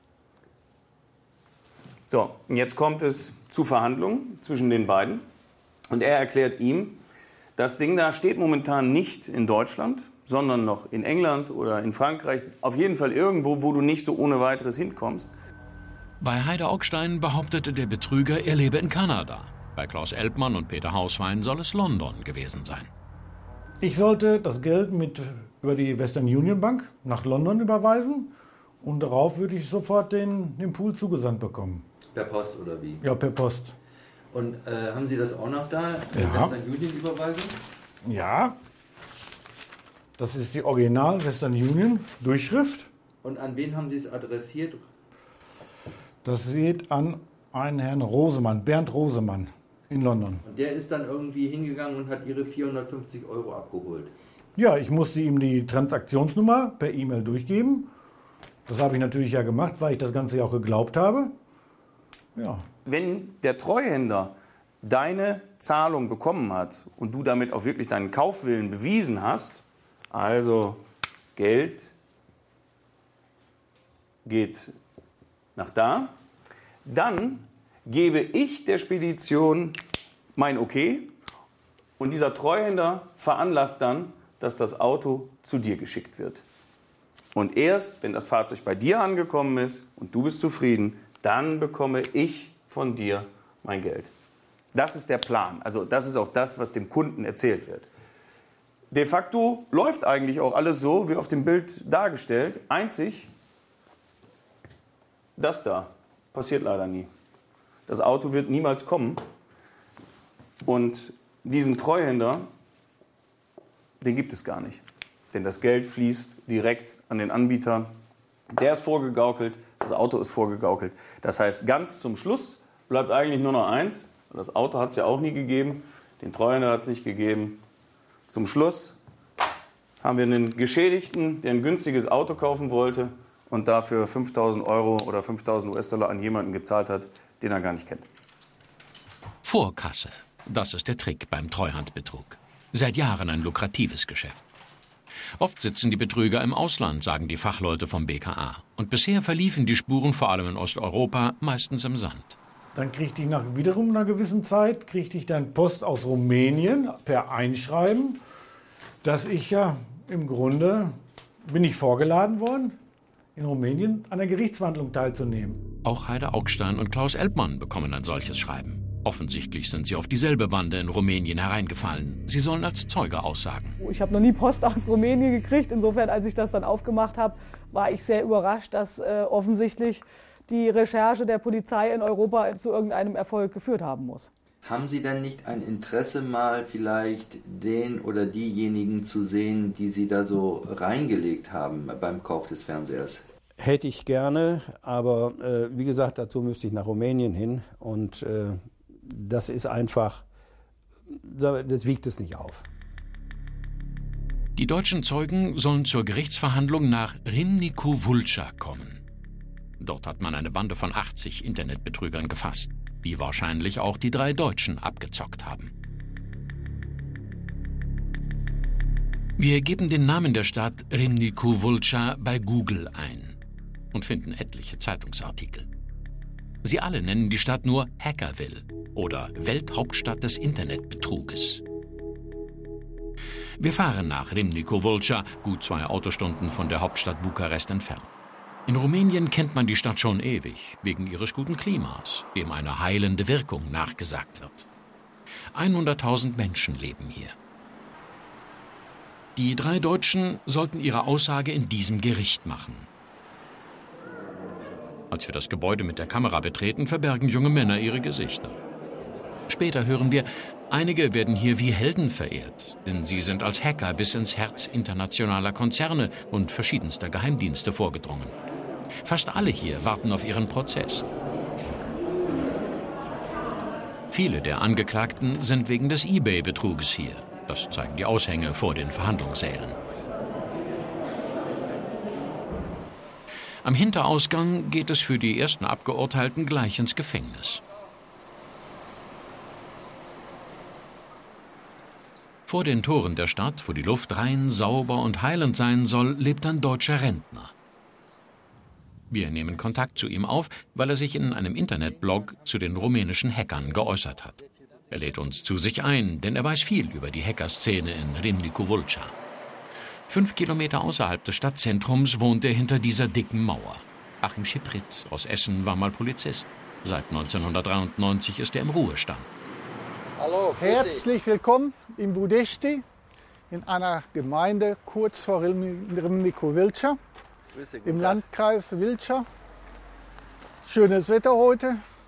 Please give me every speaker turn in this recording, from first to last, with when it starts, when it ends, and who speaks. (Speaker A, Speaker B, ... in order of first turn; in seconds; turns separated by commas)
Speaker A: 2.1-5.2, Speaker A: 5.9-7.0, Speaker A: 7.6-15.3, Speaker B: 16.2-22.9, Speaker C: 23.8-31.9, Speaker D: 32.1-33.0, Speaker C: 33.0-33.7, Speaker D: 34.3-37.6, Speaker C: 36.1-36.5, Speaker C: 38.0-38.5, Speaker C: 40.2-42.9, Speaker D: 43.2-44.8, Speaker C: 46.2-50.4, Speaker D: 50.4-54.1, Speaker C: 54.5-57.9, Speaker C: 58.7-61.3, Speaker C: 62.3-62.6, Speaker A: 62.8-70.8, Speaker A: 71.3-71.9, Speaker A: 74.2-74.8, Speaker A: 75.5-76.1, Speaker A: 76.8-79.8, Speaker A: 80.4-81.1, Speaker A: 82.0-86.4, Speaker A: 87.3-94.1, Speaker A: 94.7-97.9, Speaker A: 98.9-103.3, Speaker A: 105.4-107.1, Speaker A: 107.9-109.2, Speaker A: 110.6-112.5, Speaker A: 114.0-117.9, Speaker A: 118.5-127.6, Speaker A: 128.3-129.0, Speaker A: 130.0-138.1, Speaker B: 139.4-144.4, Speaker B: 145.4-152.4, Speaker C: 152.8-158.2, Speaker C: 159.0-162.8, Speaker C: 163.4-165.6, Speaker B: 165.8-173.8, Speaker E: 173.8-184.3, Speaker D: 184.6-193.2, Speaker F: 193.6-200.2, Speaker F: 201.1-202.7, Speaker B: 204.6-209.0, Speaker B: 209.8-215.7, Speaker B: 219.4-223.4, Speaker B: 223.9-225.7, Speaker B: 226.6-231.6, Speaker B: 233.6-238.1, Speaker B: 238.7-244.7, Speaker B: 245.5-247.3, Speaker B: 249.4-252.9, Speaker B: 255.1-258.6, Speaker B: 259.5-268.3, Speaker B: 269.0-271.1, Speaker B: 274.1-279.8, Speaker B: 283.6-287.6, Speaker B: 292.5-297.5, Speaker B: 299.1-304.4, Speaker B: 304.9-309.1, Speaker B: 310.1-319.2, Speaker D: 320.2-321.1, Speaker G: 320.6-322.8, Speaker G: 323.5-327.0, Speaker D: 327.5-328.2, Speaker G: 327.8-329.3, Speaker G: 330.6-331.8